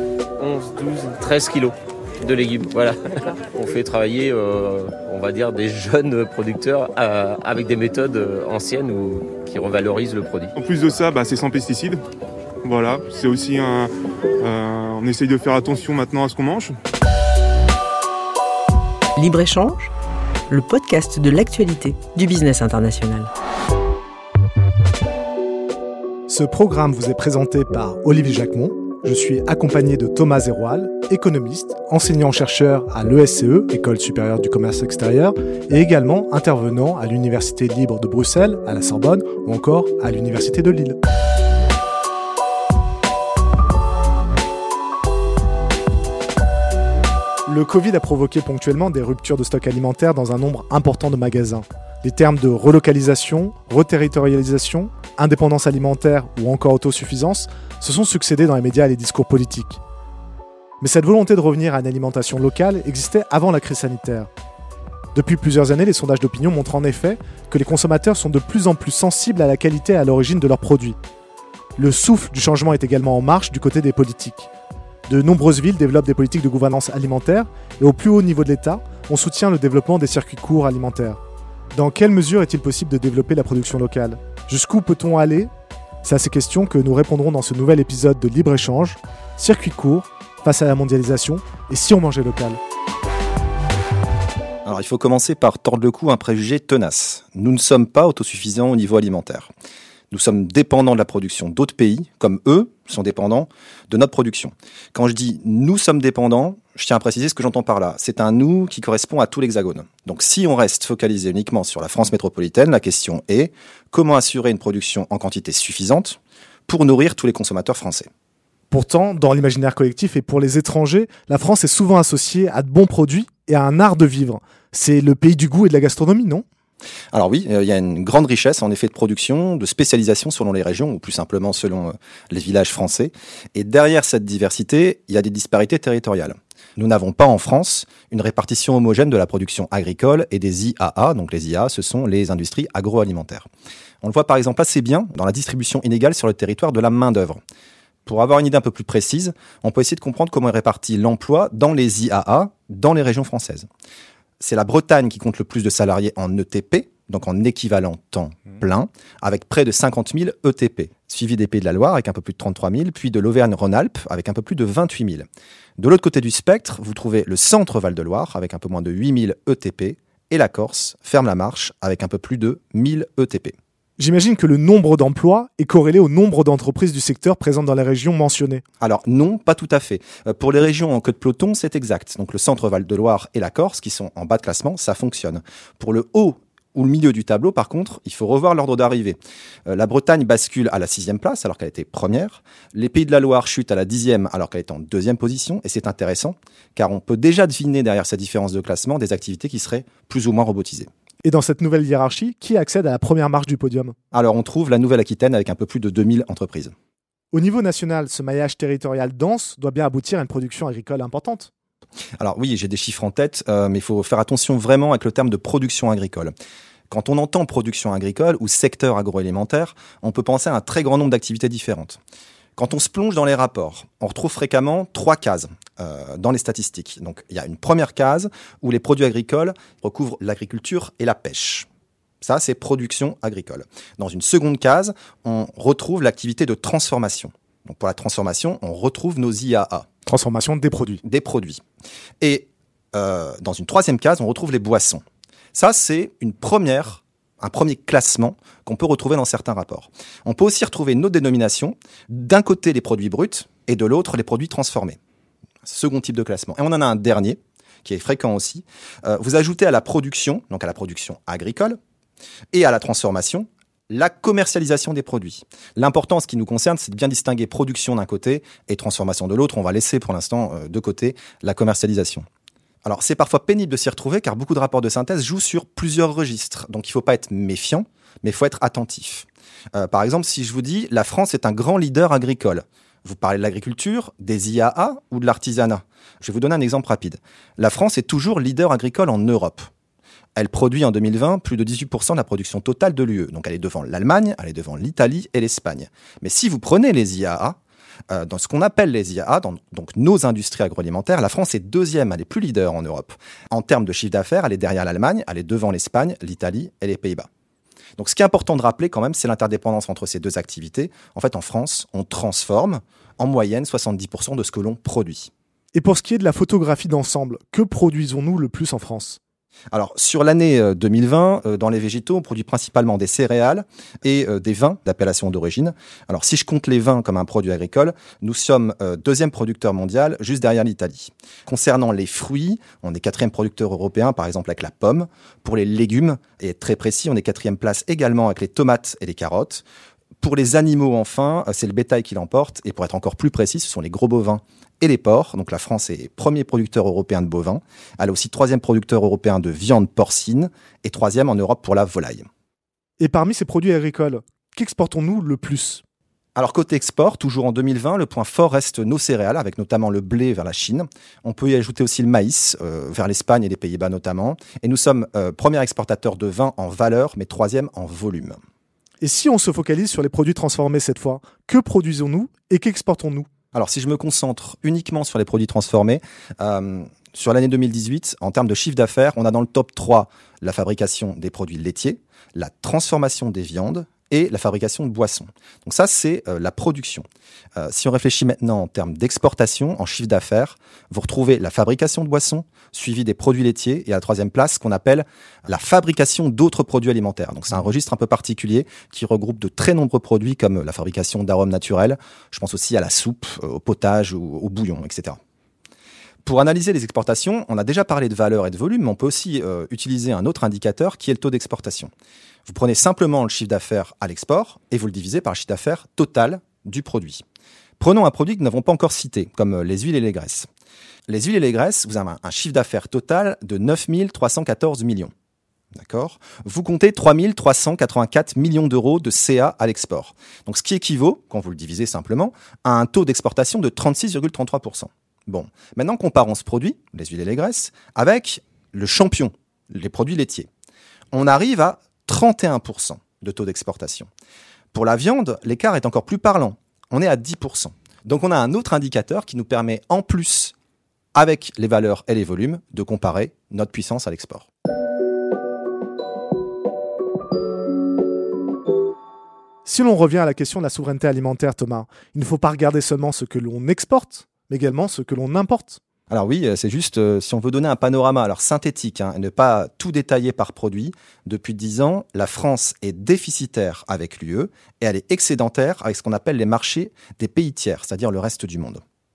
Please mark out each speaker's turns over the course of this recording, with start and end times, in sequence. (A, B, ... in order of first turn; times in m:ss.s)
0:00.4-0:10.5 A
0:10.6-0:12.0 B
0:12.6-0:16.8 B
0:19.2-0:19.9 C
0:20.5-0:23.3 C
0:26.3-0:41.0 D
0:47.4-0:59.8 D
1:00.8-1:04.3 D
1:05.1-1:11.0 D
1:11.8-1:14.5 D
1:15.1-1:21.2 D
1:21.7-1:25.5 D
1:26.0-1:32.6 D
1:34.6-1:39.5 E
1:40.1-1:58.1 E
1:58.7-2:06.4 D
2:07.1-2:23.5 E
2:24.0-2:27.4 E
2:28.0-2:33.7 E
2:34.4-2:45.3 E
2:45.8-2:53.6 E
2:54.0-2:58.6 D
2:58.8-3:20.9 E
3:21.2-3:23.9 D
3:24.1-3:26.7 E
3:27.3-3:31.5 D
3:32.2-3:36.3 E
3:36.9-3:42.0 E
3:42.6-3:51.7 E
3:52.2-3:59.9 E
4:00.0-4:01.0 D
4:01.0-4:01.6 E
4:02.2-4:05.0 E
4:05.5-4:15.0 E
4:15.6-4:21.8 E
4:22.5-4:32.2 E
4:32.8-4:49.7 E
4:50.4-4:57.6 E
4:58.1-5:07.3 E
5:08.0-5:15.3 E
5:15.7-5:19.2 D
5:19.7-5:39.6 E
5:40.2-5:52.3 E
5:53.0-5:55.8 D
5:56.4-6:08.4 E
6:09.0-6:13.3 D
6:13.5-6:45.2 E
6:46.2-6:51.9 E
6:52.4-6:57.2 E
6:57.8-7:00.5 E
7:01.1-7:05.1 E
7:05.7-7:20.5 E
7:21.1-7:24.1 E
7:24.7-7:30.5 E
7:31.1-7:34.5 E
7:39.6-7:45.8 D
7:46.1-7:58.8 E